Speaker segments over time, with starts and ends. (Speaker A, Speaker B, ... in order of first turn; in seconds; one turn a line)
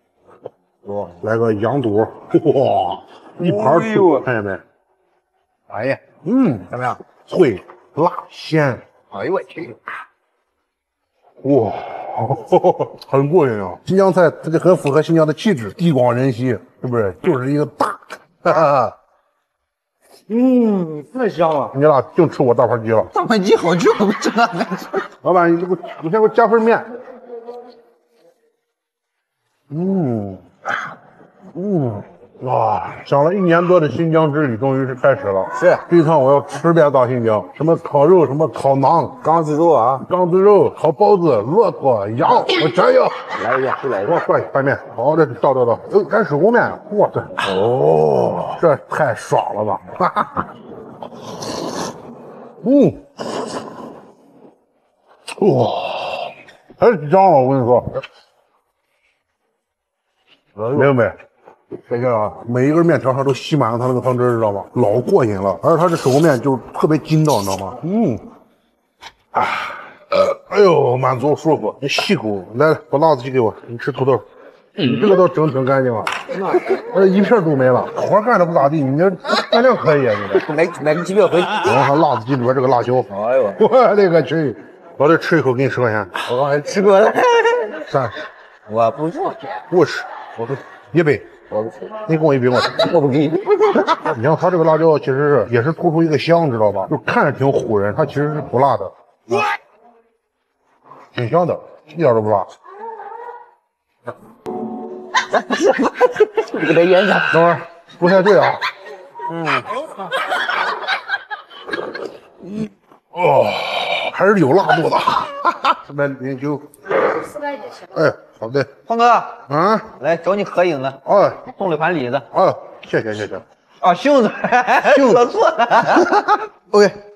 Speaker A: 0.9-4.6
Speaker B: 3.4-4.2
Speaker B: 5.7-6.0
Speaker A: 6.2-8.8
Speaker B: 6.7-7.0
Speaker B: 9.1-9.8
Speaker A: 11.4-18.9
Speaker B: 20.3-21.7
Speaker A: 21.7-23.1
Speaker B: 23.1-25.0
Speaker A: 25.2-26.9
Speaker A: 29.7-30.5
Speaker B: 31.6-32.0
Speaker A: 32.4-39.3
Speaker B: 35.6-35.8
Speaker B: 39.2-40.0
Speaker A: 40.0-43.4
Speaker B: 43.3-44.2
Speaker A: 44.0-47.5
Speaker B: 47.4-48.5
Speaker A: 48.4-50.5
Speaker A: 52.6-53.0
Speaker A: 55.4-58.0
Speaker A: 60.7-61.2
Speaker A: 61.9-68.2
Speaker A: 69.3-74.2
Speaker A: 74.8-80.4
Speaker B: 76.4-76.7
Speaker B: 80.3-81.7
Speaker A: 81.6-86.1
Speaker B: 83.1-83.6
Speaker B: 86.2-87.8
Speaker A: 87.8-88.2
Speaker B: 88.7-89.6
Speaker A: 89.7-91.3
Speaker B: 91.5-91.8
Speaker A: 92.0-92.8
Speaker B: 92.6-94.1
Speaker A: 94.0-98.9
Speaker A: 101.1-102.5
Speaker B: 105.3-107.4
Speaker A: 107.3-108.6
Speaker B: 109.3-109.8
Speaker A: 113.1-116.7
Speaker A: 117.5-118.7
Speaker B: 118.9-119.4
Speaker A: 119.5-119.9
Speaker B: 120.0-122.3
Speaker A: 121.0-121.5
Speaker A: 122.3-123.4
Speaker B: 123.8-127.0
Speaker A: 124.9-125.3